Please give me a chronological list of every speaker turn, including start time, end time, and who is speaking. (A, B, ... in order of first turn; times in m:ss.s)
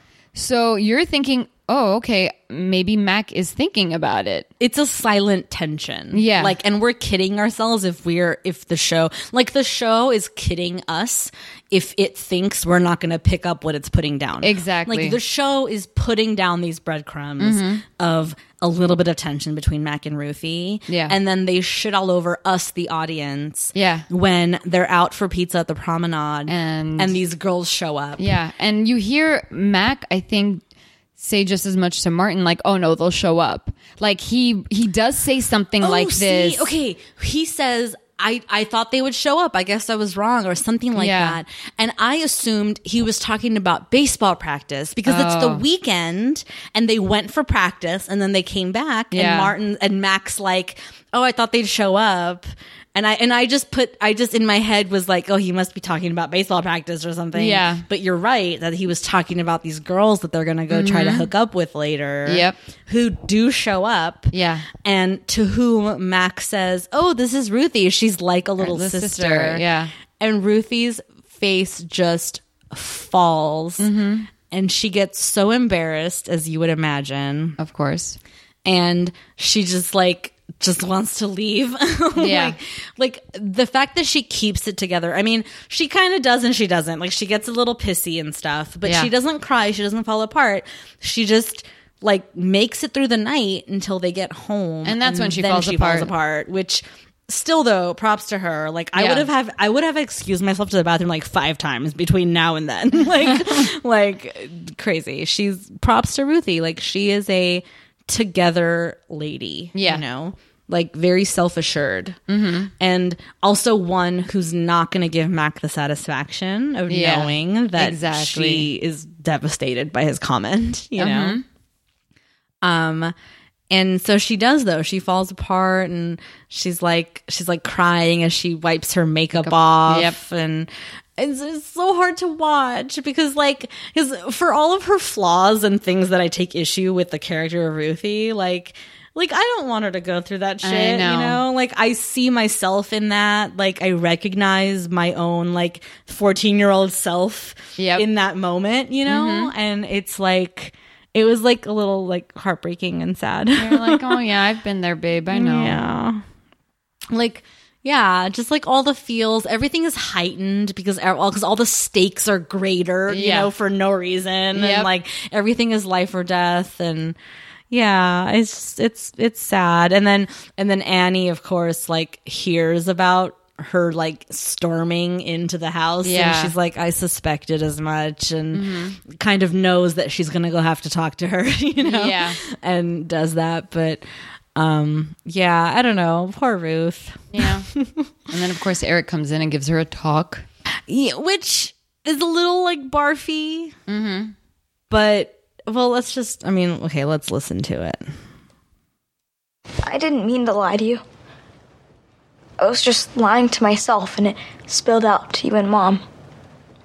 0:00.4-0:04.5 A
0:04.6-0:28.3 B
0:06.1-0:06.6 A
0:14.4-0:15.2 A
0:17.4-0:17.8 A
0:20.9-0:21.2 A
0:23.8-0:24.1 A
0:26.5-0:27.2 A
0:28.2-0:30.6 A
0:31.2-0:36.7 A
0:35.8-1:09.7 B
0:41.0-0:41.4 A
0:45.1-0:45.6 A
0:49.1-0:49.5 A
0:57.3-0:57.8 A
1:00.7-1:01.3 A
1:02.3-1:02.6 A
1:04.3-1:04.7 A
1:08.6-1:09.9 A
1:10.2-1:13.9 B
1:13.8-1:14.3 A
1:14.5-1:17.6 B
1:17.6-1:18.2 A
1:18.6-1:52.2 B
1:22.2-1:22.6 A
1:28.8-1:29.1 A
1:34.8-1:36.1 A
1:39.0-1:39.3 A
1:49.8-1:50.0 A
1:52.3-1:52.7 A
1:52.7-2:01.4 B
1:56.9-1:58.7 A
2:01.0-2:01.4 A
2:02.6-2:03.1 B
2:03.7-2:34.2 B
2:09.4-2:10.2 A
2:20.6-2:21.4 A
2:27.8-2:28.1 A
2:29.1-2:29.5 A
2:33.6-2:35.8 A
2:35.3-2:36.2 B
2:37.1-2:47.2 B
2:43.1-2:43.5 A
2:44.5-2:44.9 A
2:47.7-3:04.0 B
2:56.0-2:56.5 A
2:58.5-2:59.0 A
3:01.8-3:02.4 A
3:04.6-3:08.0 B
3:07.3-3:07.7 A
3:08.3-3:10.5 A
3:10.9-3:13.8 B
3:13.9-3:14.3 A
3:14.9-3:18.1 B
3:19.8-3:21.0 C
3:22.6-3:26.0 C